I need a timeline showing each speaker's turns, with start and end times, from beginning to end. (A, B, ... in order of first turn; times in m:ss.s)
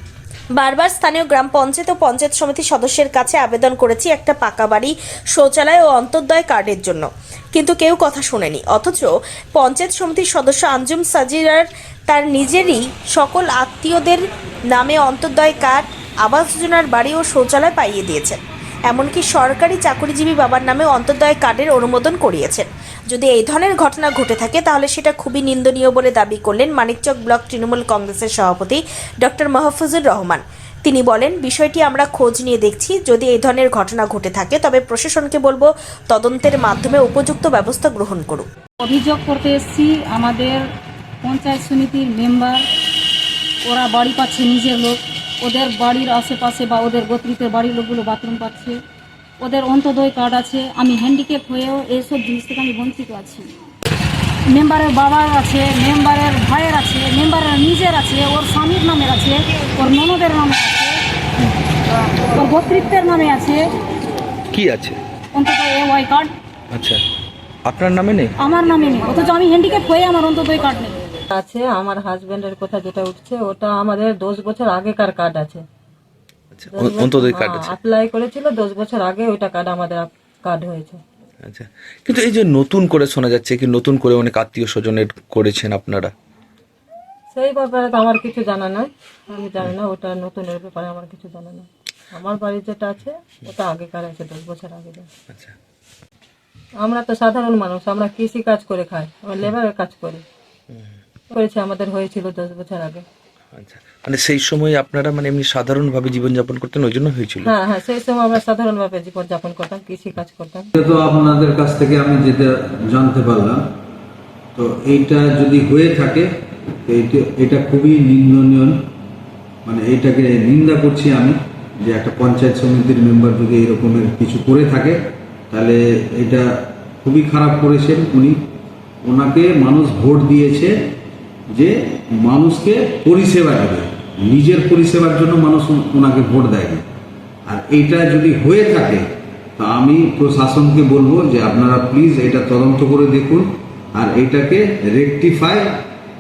0:00.6-0:38.5 A
0:38.8-0:40.6 B
0:41.2-0:42.6 B
0:43.6-0:48.8 B
0:49.4-0:53.5 B
0:54.5-1:01.0 B
1:02.3-1:03.7 B
1:04.5-1:05.0 C
1:05.3-1:06.3 B
1:06.7-1:07.0 C
1:07.7-1:08.4 C
1:08.4-1:11.0 B
1:11.3-1:15.6 D
1:16.5-1:17.8 C
1:16.7-1:21.0 D
1:21.4-1:26.1 C
1:27.3-1:35.1 D
1:35.3-1:35.6 C
1:36.8-1:40.2 D
1:41.3-1:43.0 D
1:43.5-1:47.6 C
1:47.4-1:50.7 D
1:50.8-1:53.6 E
1:54.6-1:56.3 E
1:56.8-1:58.8 E
1:59.6-2:06.5 E
2:07.0-2:08.4 E
2:09.0-2:10.9 E
2:11.5-2:16.8 E
2:17.5-2:19.0 E
2:19.6-2:25.8 E